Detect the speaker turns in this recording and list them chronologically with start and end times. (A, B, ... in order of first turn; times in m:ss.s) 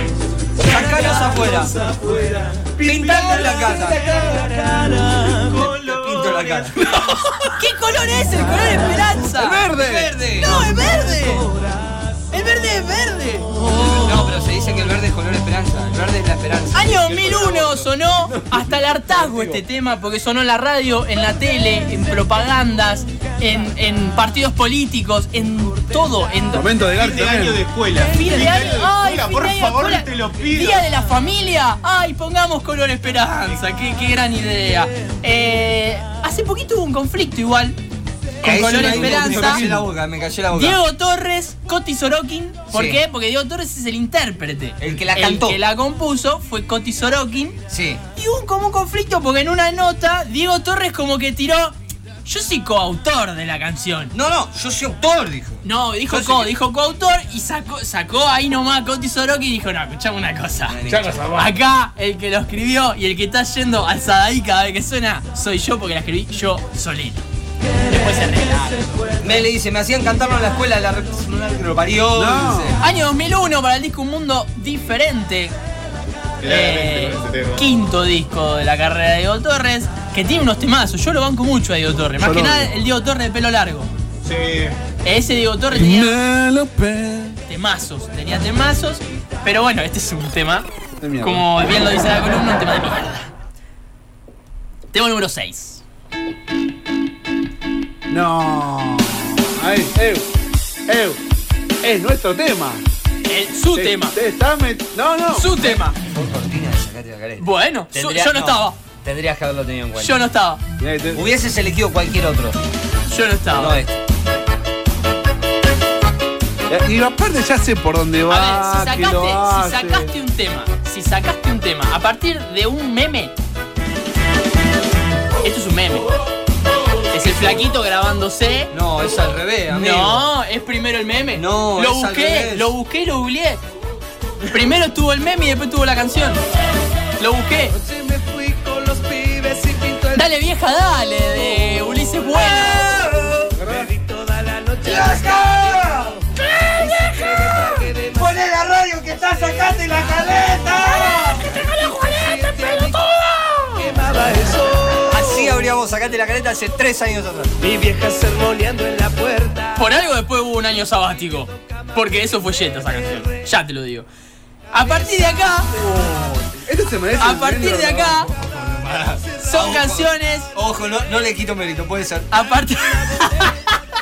0:00.6-0:01.7 A
0:02.1-0:02.7 B
0:02.8-0:04.1 A
0:02.9-0:03.3 C
0:04.1-0:05.7 B
0:05.5-0:06.7 D
0:05.9-0:06.8 A
0:06.9-0:09.7 E
0:09.3-0:10.2 C
0:09.6-0:10.6 A
0:10.4-0:11.5 E
0:12.3-0:13.5 E
0:13.8-0:17.0 A
0:16.7-0:26.8 E
0:17.0-0:17.9 D
0:18.4-0:19.6 C
0:26.5-0:27.7 C
0:26.9-0:30.8 D
0:28.0-0:37.8 E
0:38.4-0:39.6 E
0:38.4-0:40.8 A
0:38.8-0:39.8 C
0:40.5-0:47.6 E
0:42.7-0:43.0 A
0:44.8-0:45.6 A
0:47.7-0:48.0 A
0:48.2-0:54.1 E
0:54.1-0:56.5 A
0:55.6-1:07.2 E
1:00.7-1:01.2 A
1:00.9-1:01.4 C
1:07.8-1:08.9 E
1:09.2-1:12.8 A
1:12.1-1:12.8 C
1:12.8-1:15.5 E
1:16.4-1:17.7 D
1:16.4-1:23.9 E
1:22.2-1:22.7 C
1:24.2-1:24.7 D
1:25.0-1:26.2 E
1:25.7-1:27.4 C
1:27.5-1:30.7 E
1:31.0-1:31.5 C
1:31.2-1:33.3 E
1:34.9-1:35.8 E
1:38.1-1:40.2 C
1:40.9-1:41.2 C
1:41.8-1:42.8 C
1:43.2-1:44.2 E
1:43.7-1:45.5 C
1:45.3-1:46.0 E
1:45.6-1:50.2 A
1:47.4-1:48.8 E
1:49.9-1:50.6 E
1:50.8-1:51.3 C
1:51.1-1:52.6 A
1:53.0-1:53.8 E
1:53.5-1:54.0 A
1:56.7-2:00.1 C
1:58.2-2:03.3 E
2:05.4-2:06.1 E
2:07.1-2:08.7 E
2:08.7-2:10.3 A
2:09.7-2:13.6 E
2:11.3-2:12.7 A
2:14.4-2:16.4 E
2:17.2-2:17.8 E
2:17.8-2:20.0 B
2:20.1-2:23.0 E
2:22.4-2:23.6 A
2:23.5-2:23.9 C
2:23.6-2:25.6 B
2:24.8-2:26.3 A
2:26.8-2:28.2 B
2:27.0-2:27.3 E
2:27.3-2:31.6 A
2:31.5-2:32.8 E
2:31.9-2:33.0 B
2:33.7-2:35.1 B
2:35.0-2:37.6 A
2:37.6-2:39.7 B
2:39.7-2:44.1 E
2:44.7-2:45.7 E
2:45.7-2:48.2 C
2:47.2-2:48.3 E
2:48.3-2:52.3 A
2:49.4-2:50.5 E
2:52.3-2:53.8 E